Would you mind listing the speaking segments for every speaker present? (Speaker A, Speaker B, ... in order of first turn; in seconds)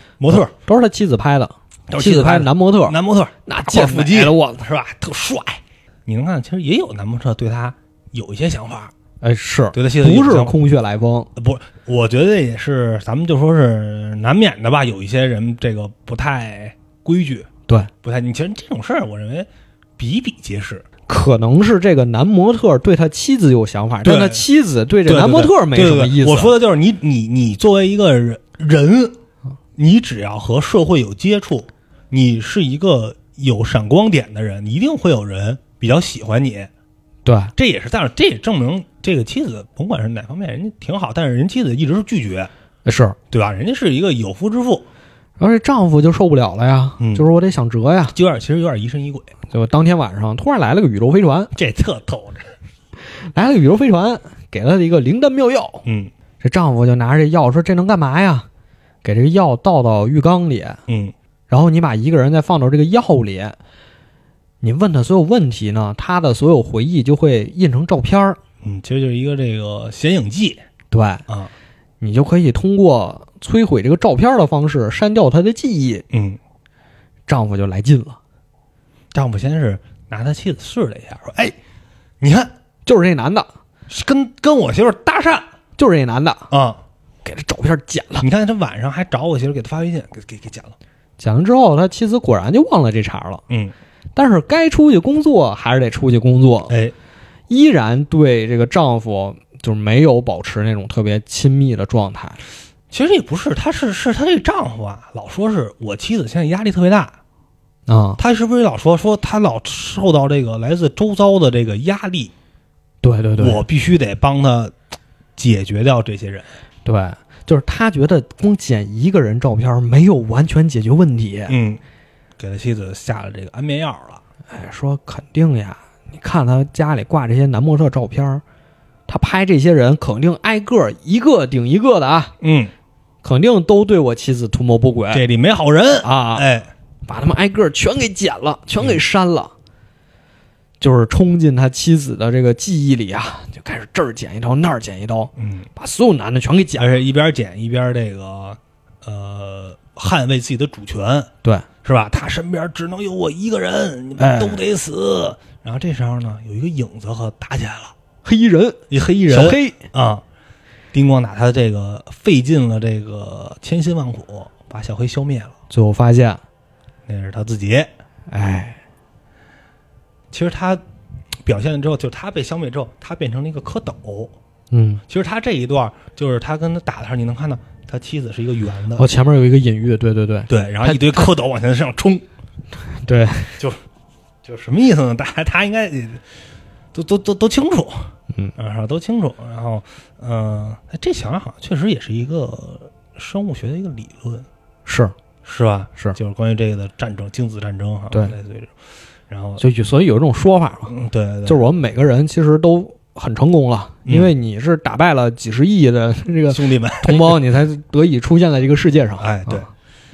Speaker A: 0.2-0.5, 1.9-8.9, 9.7-10.6, 11.4-17.5, 18.0-20.9, 24.0-24.5, 25.1-29.2, 29.8-36.7, 37.6-42.5, 43.3-44.9, 47.0-47.3, 48.1-49.3, 51.5-52.5, 55.9-56.1, 60.9-61.1, 68.6-70.6, 76.1-76.4, 79.1-81.5, 82.2-82.5, 83.9-85.5, 86.5-86.8, 88.2-90.8, 96.7-96.9, 102.9-107.2, 108.2-112.3, 113.4-114.8, 115.4-116.5, 121.5-121.8, 122.4-124.2, 132.4-132.7, 135.1-136.7, 145.4-145.7, 146.8-151.3, 151.8-157.9, 158.9-160.2, 160.9-165.6, 167.1-167.9, 170.3-170.8, 171.4-174.3, 175.1-179.1, 180.5-182.2, 184.4-186.2, 186.9-194.5, 195.4-198.7, 199.3-199.6, 200.9-201.7, 204.1-204.3, 206.5-207.4, 209.2-209.7
Speaker B: 0.3-4.7, 9.2-11.3, 21.1-26.5, 37.2-37.5, 42.9-43.2, 45.4-48.1, 49.5-51.5, 53.0-55.8, 56.4-58.5, 59.0-60.8, 61.5-63.6, 64.6-68.4, 70.9-71.2, 72.0-76.0, 77.3-78.2, 82.9-83.5, 85.8-86.5, 87.2-88.3, 91.2-93.4, 94.2-96.7, 97.5-102.4, 107.9-108.2, 113.0-113.6, 116.8-121.5, 124.5-128.4, 129.1-132.3, 133.2-135.2, 136.0-136.5, 137.1-139.5, 140.8-146.9, 154.2-154.6, 158.2-159.8, 165.7-166.4, 168.3-168.8, 174.7-175.0, 179.0-181.3, 182.9-183.6, 194.9-195.2, 199.6-200.9, 201.5-209.7